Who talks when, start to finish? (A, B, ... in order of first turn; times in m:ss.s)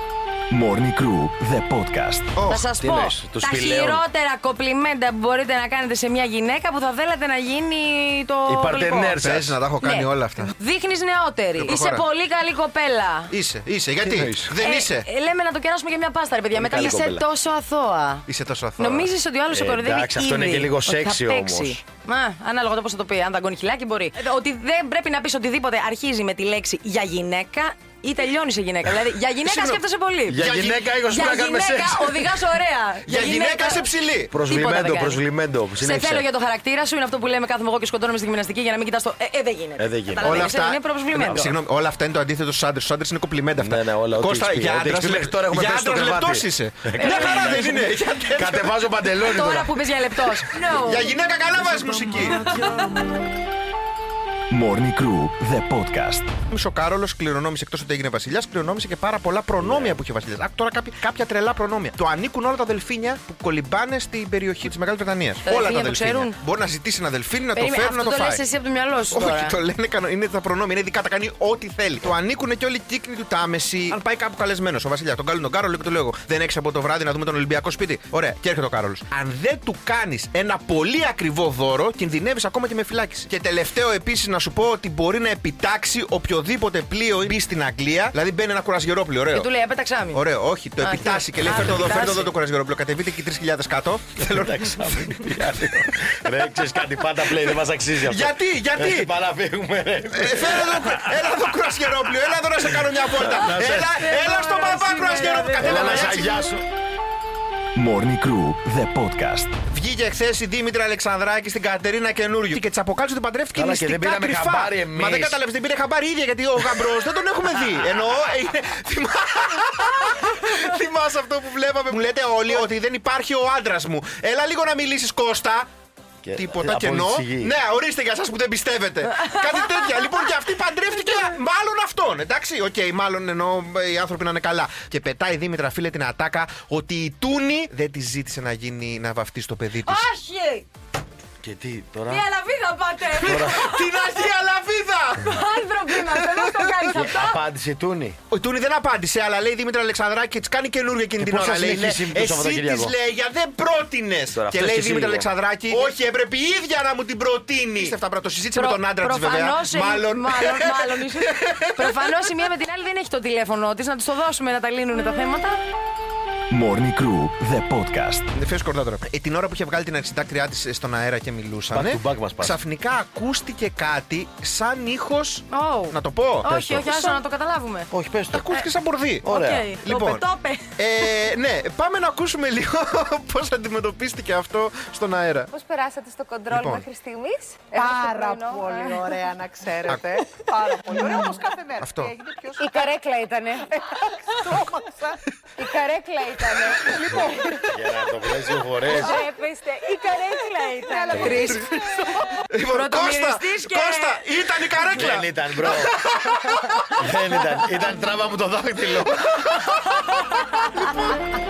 0:00.5-0:02.3 A
0:02.4-0:02.6 B
0:02.5-0:09.2 C
0:02.8-0:04.0 D
0:08.5-0:09.6 D
0:09.2-0:10.5 B
0:09.8-0:13.3 C
0:11.6-0:12.1 B
0:13.3-0:15.1 B
0:14.0-0:14.4 D
0:14.6-0:18.2 C
0:16.5-0:17.2 D
0:18.3-0:19.1 B
0:18.8-0:30.4 C
0:19.5-0:21.8 D
0:30.3-0:32.4 D
0:30.4-0:30.8 B
0:31.1-0:35.2 C
0:33.1-0:34.3 B
0:34.3-0:36.3 D
0:35.8-0:41.5 C
0:39.8-0:40.5 D
0:40.2-0:48.7 B
0:41.3-0:41.6 D
0:43.6-0:50.6 D
0:47.0-0:47.7 C
0:49.2-0:51.1 C
0:50.7-0:52.4 B
0:52.2-0:52.8 C
0:54.5-0:56.3 A
0:56.5-1:08.4 B
0:59.6-1:00.0 D
1:05.4-1:06.4 C
1:07.5-1:09.6 C
1:09.1-1:29.5 B
1:29.3-1:30.2 C
1:30.1-1:35.1 B
1:30.8-1:32.3 C
1:34.2-1:41.4 D
1:38.0-1:39.1 B
1:40.2-1:46.4 B
1:42.8-1:44.0 D
1:43.7-1:46.0 C
1:45.6-1:46.6 D
1:47.8-1:49.5 A
1:49.7-2:05.7 B
1:53.6-1:55.4 D
2:06.2-2:07.6 D
2:06.4-2:20.1 B
2:19.9-2:20.6 C
2:21.4-2:22.3 D
2:22.1-2:24.3 C
2:23.2-2:23.7 D
2:23.4-2:26.9 B
2:25.2-2:27.4 C
2:26.9-2:28.2 D
2:28.3-2:42.1 B
2:31.2-2:32.9 D
2:34.3-2:35.3 D
2:38.5-2:45.6 C
2:46.5-2:48.3 A
2:48.3-2:56.5 B
2:51.7-2:52.6 D
2:55.5-2:57.9 C
2:56.5-2:57.2 D
2:57.9-2:58.5 D
2:58.3-3:00.2 B
2:59.2-2:59.8 D
2:59.2-3:00.6 C
3:00.8-3:05.5 B
3:05.5-3:09.3 E
3:06.6-3:06.9 B
3:07.8-3:12.6 F
3:09.9-3:10.2 B
3:11.8-3:12.1 B
3:12.6-3:13.8 E
3:14.4-3:14.9 F
3:15.6-3:17.6 E
3:17.7-3:19.2 D
3:19.0-3:21.4 E
3:21.2-3:21.4 D
3:21.3-3:21.6 C
3:21.5-3:21.8 B
3:22.5-3:26.9 B
3:22.7-3:24.2 C
3:24.9-3:25.9 D
3:27.0-3:29.4 D
3:29.2-3:29.6 B